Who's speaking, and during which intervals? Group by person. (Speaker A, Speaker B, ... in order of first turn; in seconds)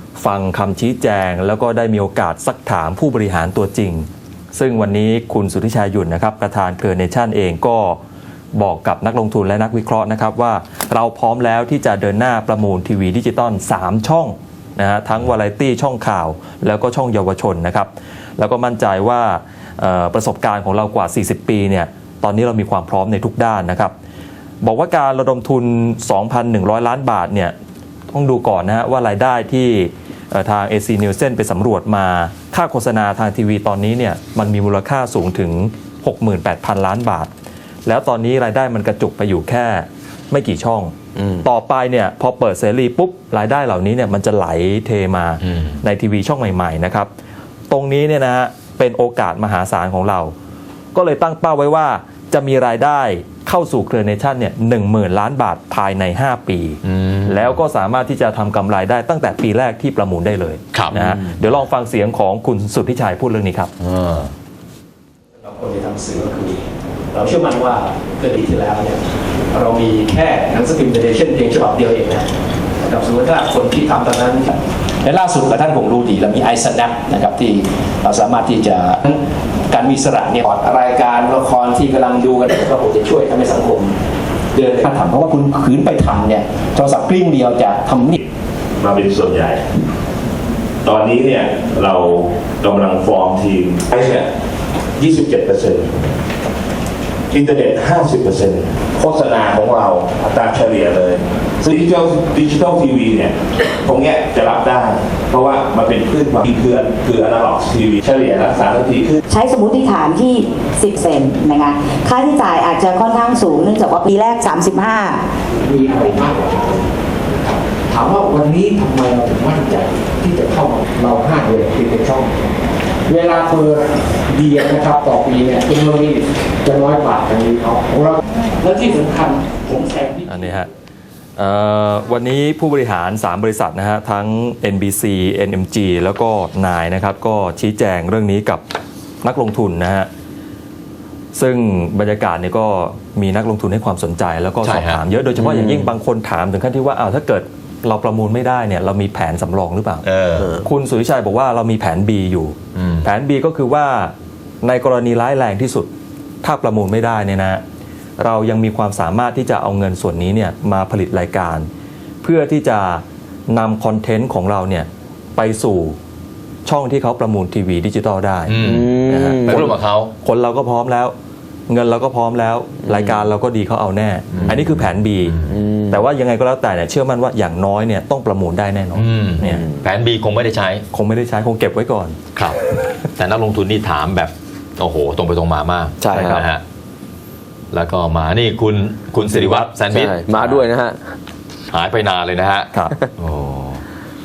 Speaker A: 0.2-8.0, 8.6-23.9, 24.6-27.6, 28.1-37.3, 37.9-47.1, 47.7-50.3, 51.0-63.7, 130.3-130.7, 131.4-138.6, 139.2-140.1, 141.3-150.1, 150.6-155.9, 156.4-157.6, 158.2-161.7, 162.2-166.0, 166.7-171.1, 171.7-179.6, 180.9-182.2, 186.1-186.5, 189.3-189.7
Speaker B: 56.8-57.6, 63.8-64.3, 144.6-145.0, 150.0-150.6, 152.8-153.1, 168.5-170.1, 174.3-174.6, 175.2-175.6, 178.9-180.8, 183.2-186.6, 187.7-190.7, 191.7-193.8
Speaker C: 65.4-69.0, 69.5-72.3, 72.8-84.0, 84.5-88.1, 115.6-116.9, 117.9-122.4, 123.1-130.4
Speaker D: 88.8-89.6, 90.8-94.3, 95.0-96.0, 97.3-109.2
Speaker E: 109.3-115.2
Speaker F: 145.4-145.9, 168.6-169.6, 175.5-175.9, 179.4-179.9, 186.0-186.5, 189.9-191.0